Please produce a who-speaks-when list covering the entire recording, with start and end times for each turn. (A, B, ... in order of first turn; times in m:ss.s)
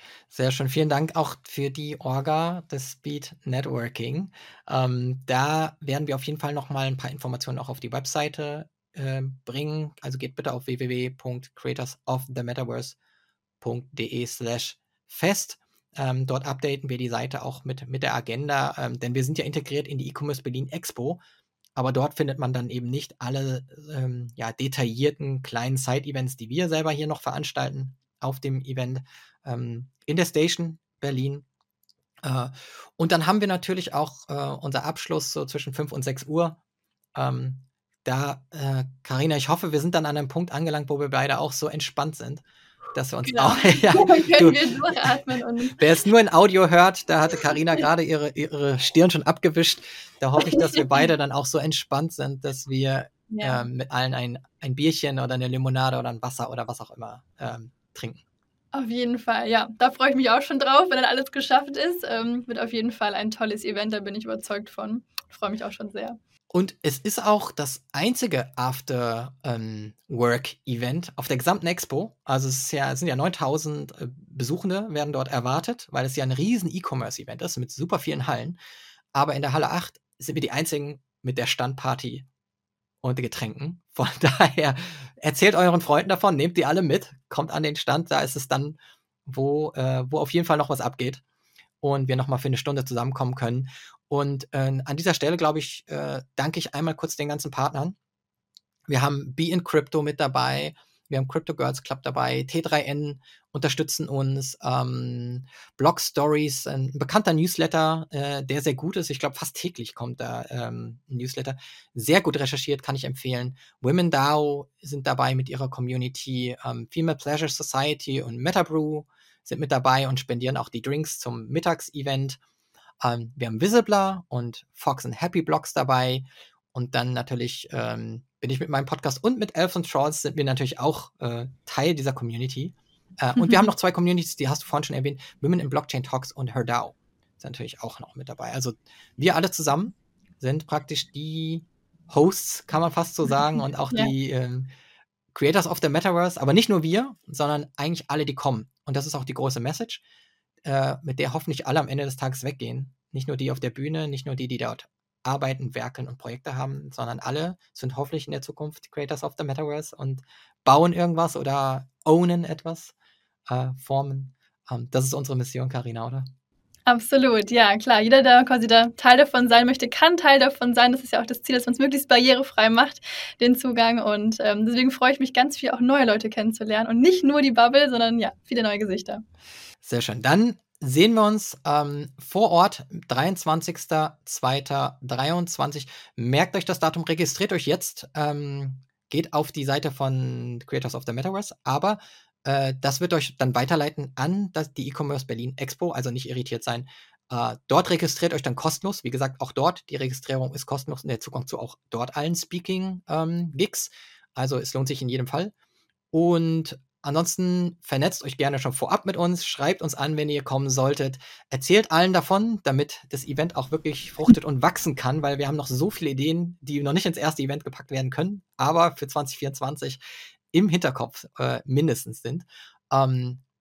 0:00.3-0:13.0 A
0:13.6-0:21.2 A
0:21.8-0:31.4 A
0:32.2-0:36.6 A
0:37.2-0:45.2 A
0:43.2-0:45.8 B
0:45.8-0:58.2 A
0:50.7-0:51.0 B
0:53.3-0:53.7 B
0:58.7-1:06.2 B
1:06.5-1:18.6 A
1:19.1-1:22.2 A
1:23.0-1:31.2 A
1:31.8-1:38.0 A
1:38.9-2:02.4 A
2:03.0-2:24.7 A
2:13.4-2:13.7 B
2:25.3-2:30.0 A
2:30.6-2:42.9 A
2:43.5-2:46.3 A
2:46.9-2:59.2 B
2:59.8-3:25.5 A
3:26.1-3:40.0 A
3:40.5-3:43.4 A